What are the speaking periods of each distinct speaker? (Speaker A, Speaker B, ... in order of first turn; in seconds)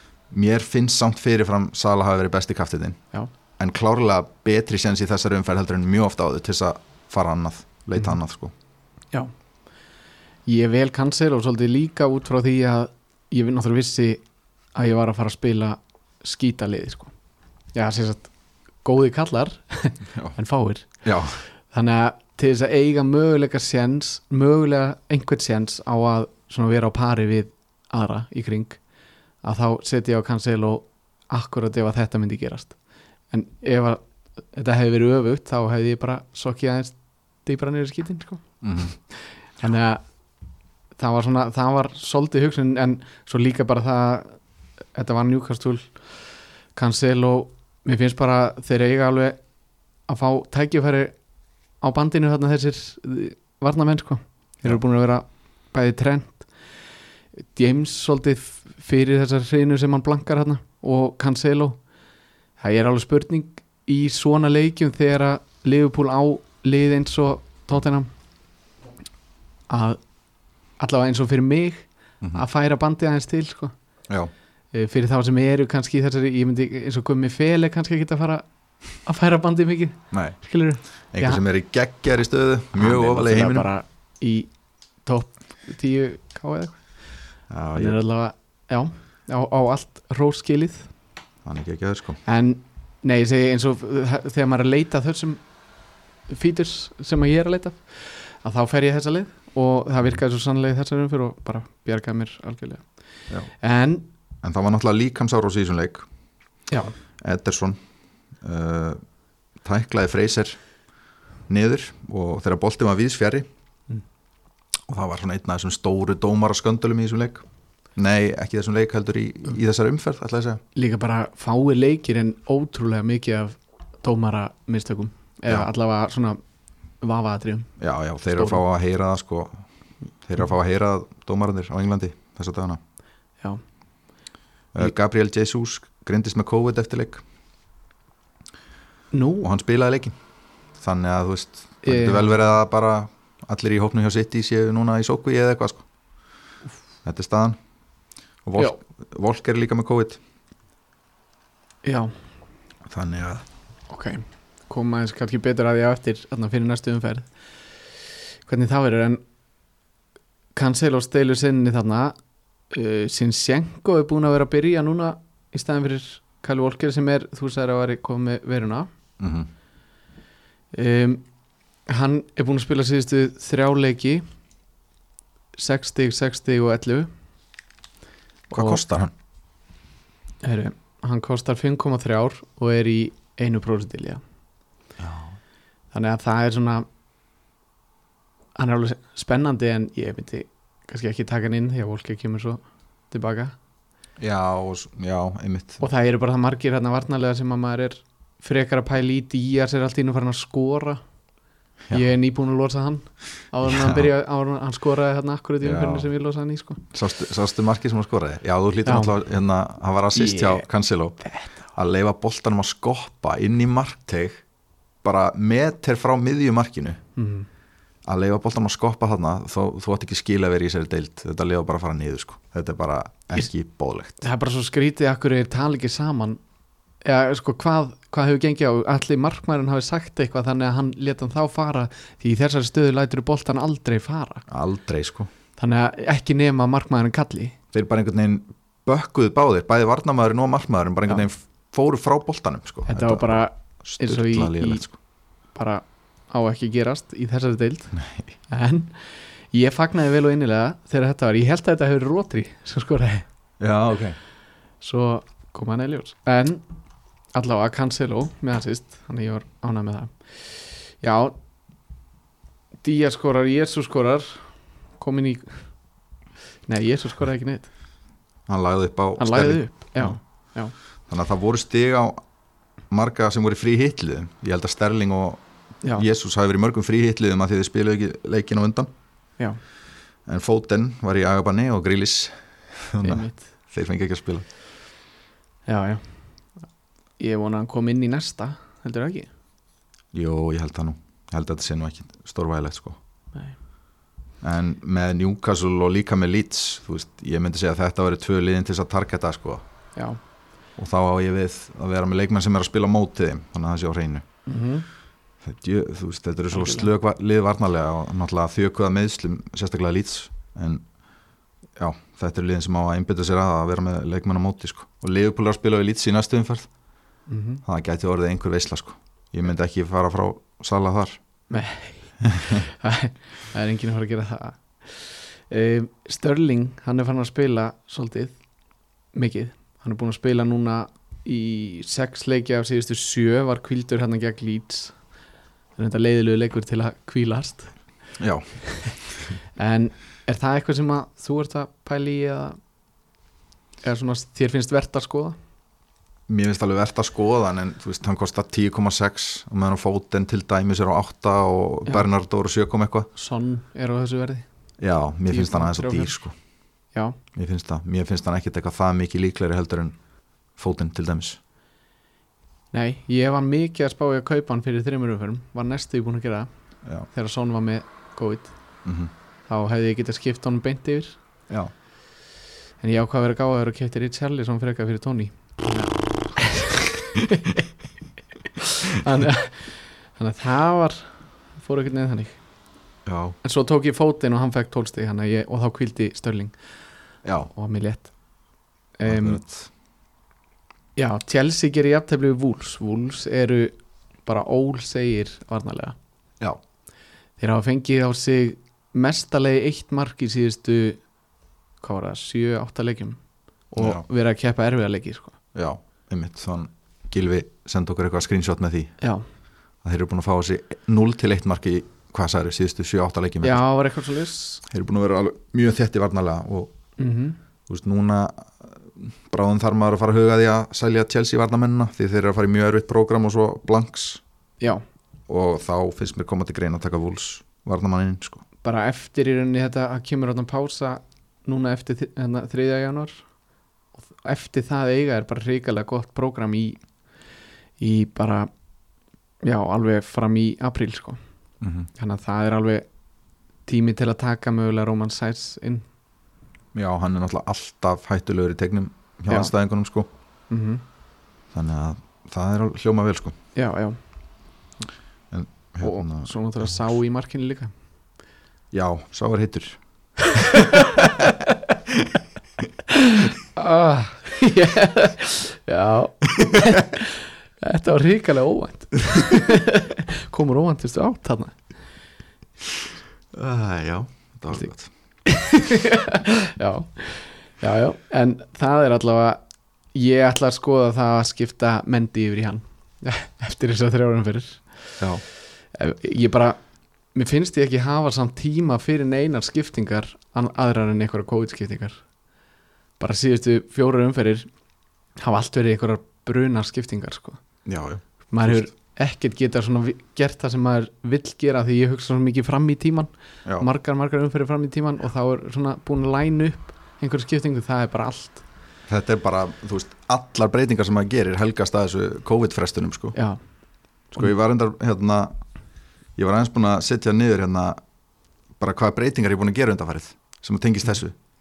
Speaker A: 0.3-3.0, 3.6-8.5, 21.0-21.4, 38.6-38.9, 80.1-80.4, 81.1-83.7, 87.5-88.0, 91.4-92.2, 104.4-106.0, 107.2-107.8, 108.4-109.0, 109.6-110.6, 111.5-113.4, 114.9-117.4, 118.0-120.6, 127.8-129.6, 130.2-132.8, 134.7-137.2, 139.4-140.2, 140.8-145.8, 147.0-147.6, 148.4-150.2, 152.8-153.4, 169.2-169.5, 178.5-179.1, 185.0-185.4, 194.2-195.8, 203.7-204.1, 205.6-206.1, 206.9-211.2, 211.7-214.4, 215.0-217.0, 218.1-224.2, 234.5-235.3, 237.7-244.9, 247.9-248.2, 253.6-254.2, 268.5-270.2, 271.1-272.2, 272.9-275.4, 275.9-278.9, 280.2-284.4, 290.1-293.0, 294.4-299.6, 300.8-304.2, 305.4-310.8, 311.8-316.7, 317.6-321.2, 322.2-322.6, 338.2-338.6, 346.3-353.1, 354.8-356.3, 357.3-360.0, 360.6-361.4, 368.8-369.1, 383.1-383.4, 387.2-387.5, 389.0-389.7, 403.8-404.0, 405.5-409.0, 409.8-413.6, 414.7-416.7, 417.7-424.2, 425.3-428.4, 441.6-441.9, 446.7-450.1, 451.5-453.3, 455.3-456.7, 458.7-459.8, 460.8-461.3, 473.3-474.9, 497.6-498.6, 508.9-513.1, 514.1-515.4, 516.1-517.8, 518.6-521.1
Speaker B: 10.5-14.2, 14.7-17.1, 17.7-18.3, 18.8-20.9, 21.7-28.8, 29.4-32.8, 33.3-38.4, 39.0-40.0, 41.0-44.4, 44.9-46.0, 46.7-49.4, 50.1-51.1, 51.8-56.5, 57.5-61.8, 62.6-68.1, 69.7-70.0, 70.8-73.7, 74.7-78.4, 79.0-81.4, 82.7-84.5, 85.0-86.8, 87.7-90.9, 92.2-95.4, 96.3-102.9, 103.6-104.1, 106.7-106.9, 120.7-126.4, 127.0-127.7, 128.3-128.6, 139.1-139.5, 141.8-142.3, 151.8-152.1, 153.9-157.3, 158.4-159.2, 160.5-162.1, 162.7-168.9, 170.7-171.2, 171.9-174.2, 175.6-177.1, 178.5-178.8, 180.4-184.2, 185.9-186.8, 188.6-193.6, 195.8-201.0, 201.9-206.8, 208.8-209.1, 210.1-210.7, 211.2-211.5, 217.2-217.5, 224.2-226.4, 227.0-234.4, 235.6-237.6, 242.9-244.8, 245.5-253.2, 254.8-256.6, 257.3-261.3, 262.8-265.7, 266.7-267.7, 269.2-270.7, 283.0-283.4, 285.7-286.2, 287.2-289.3, 304.4-304.9, 306.5-306.9, 317.3-317.6, 321.5-328.4, 329.1-335.0, 335.8-337.7, 338.7-338.9, 339.6-342.6, 343.8-345.4, 353.1-354.4, 355.3-356.2, 362.7-366.5, 367.1-368.5, 369.5-371.2, 372.8-377.6, 378.6-382.4, 383.4-386.5, 387.5-388.1, 389.0-389.4, 390.9-393.7, 394.2-395.9, 397.4-401.0, 401.8-405.4, 413.4-414.6, 417.0-417.4, 428.6-433.2, 434.2-436.8, 437.8-438.5, 439.4-441.2, 441.9-442.9, 443.6-445.8, 450.5-450.8, 453.5-454.0, 455.8-457.7, 460.3-461.5, 462.9-471.6, 475.2-479.4, 479.9-484.8, 485.7-486.6, 487.1-492.0, 493.0-494.5, 495.2-497.4, 498.3-508.4, 513.1-513.4